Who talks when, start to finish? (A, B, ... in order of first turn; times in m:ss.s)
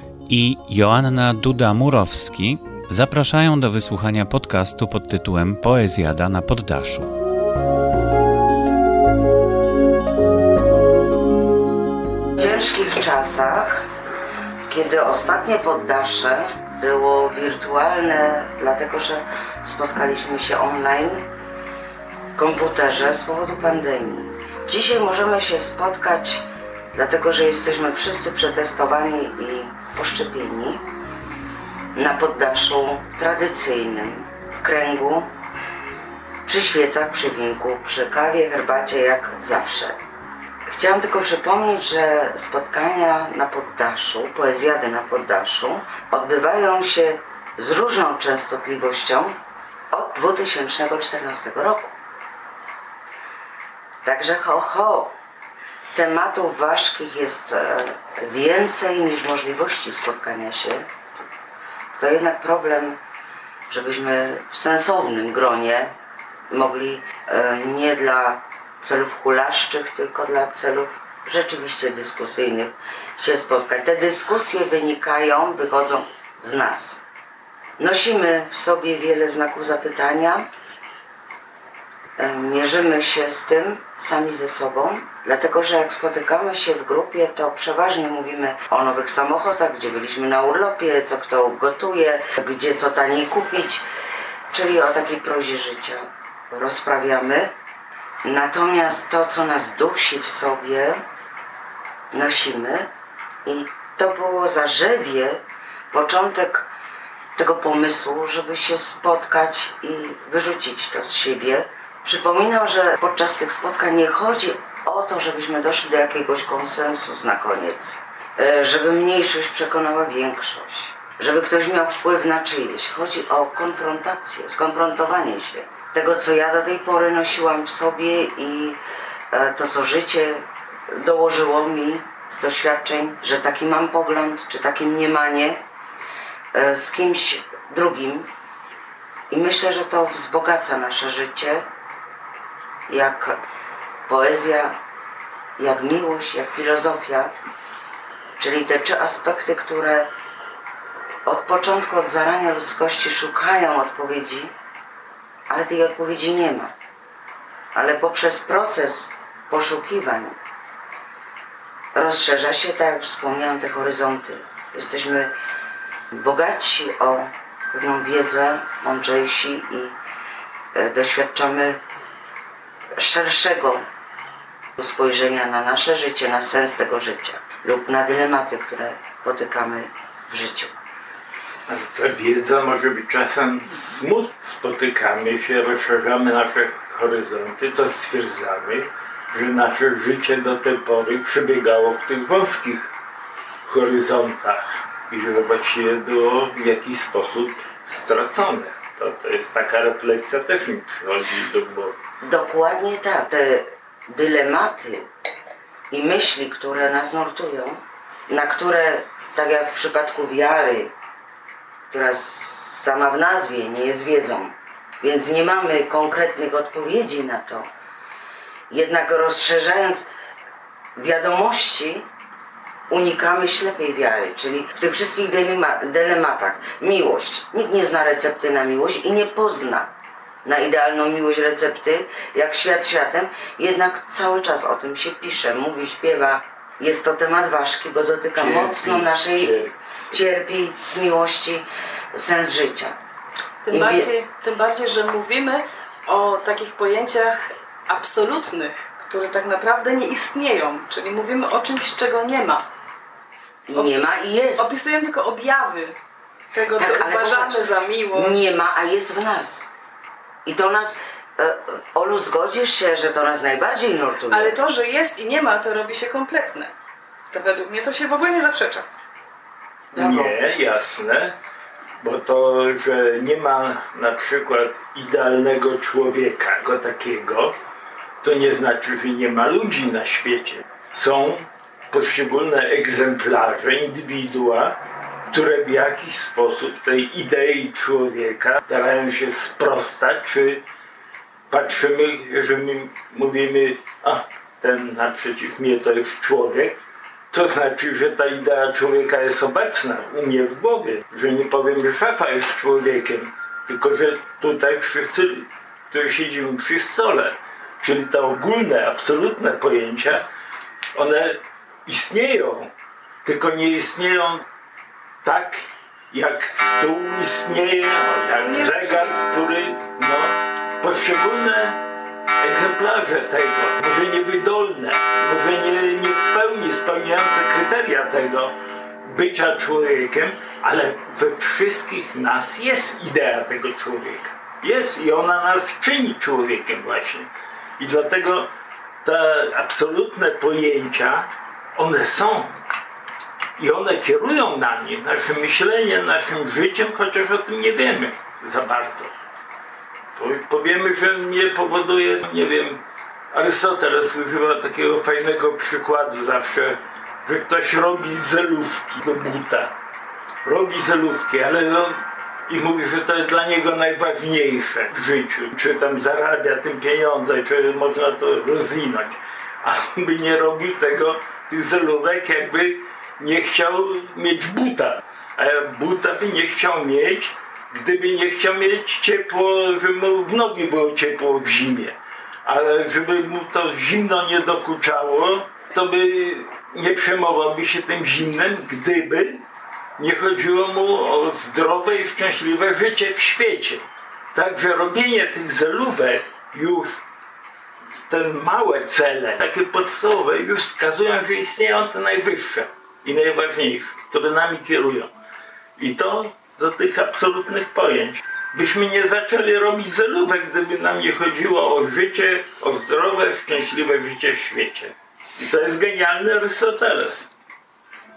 0:00.3-0:07.1 A
0:12.4-0:13.8 B
0:14.7-0:21.2 B
0:22.3-0:30.8 B
0:31.9-0:35.3 B
0:36.4-0:40.0 B
0:40.7-0:49.4 B
0:49.9-0:51.9 B
0:54.0-0:55.1 B
0:55.9-1:00.9 B
1:02.0-1:03.0 B
1:03.7-1:05.9 B
1:06.5-1:17.0 B
1:17.8-1:20.4 B
1:22.2-1:33.8 B
1:34.5-1:37.5 B
1:38.2-1:41.0 B
1:42.1-1:42.9 B
1:43.4-1:46.7 B
1:47.4-2:08.8 B
2:09.3-2:15.6 B
2:16.5-2:18.3 B
2:19.3-2:21.6 B
2:22.9-2:23.4 B
2:24.1-2:24.8 B
2:25.6-2:27.3 B
2:28.4-2:30.1 B
2:31.2-2:34.5 B
2:35.5-2:36.7 B
2:37.7-2:40.4 B
2:41.9-2:45.3 B
2:46.1-2:49.9 B
2:50.7-2:51.8 B
2:53.0-2:53.8 B
2:54.8-3:00.7 B
3:01.7-3:12.9 C
3:13.6-3:22.0 C
3:22.2-3:25.1 B
3:25.9-3:30.9 B
3:31.9-3:37.7 B
3:38.7-3:40.1 B
3:41.0-3:42.0 B
3:42.9-3:49.9 B
3:50.4-3:59.5 B
3:58.4-4:00.2 C
4:00.1-4:03.0 B
4:03.6-4:12.6 D
4:03.7-4:04.1 B
4:13.7-4:14.7 B
4:13.7-4:16.0 D
4:16.5-4:18.6 D
4:16.8-4:17.6 B
4:18.2-4:19.6 B
4:20.4-4:24.6 B
4:24.3-4:26.7 D
4:27.3-4:28.8 D
4:29.9-4:30.3 B
4:30.0-4:31.4 C
4:32.0-4:37.6 C
4:38.2-4:44.8 C
4:45.3-4:50.6 C
4:51.5-5:10.3 C
5:10.9-5:12.7 C
5:13.2-5:14.4 C
5:15.2-5:21.8 C
5:18.3-5:19.4 D
5:22.4-5:28.5 C
5:29.0-5:38.5 C
5:39.0-5:42.6 C
5:43.6-5:49.1 C
5:50.2-5:59.8 C
6:00.4-6:29.4 C
6:30.0-6:37.0 C
6:38.1-6:45.1 C
6:45.8-6:57.3 C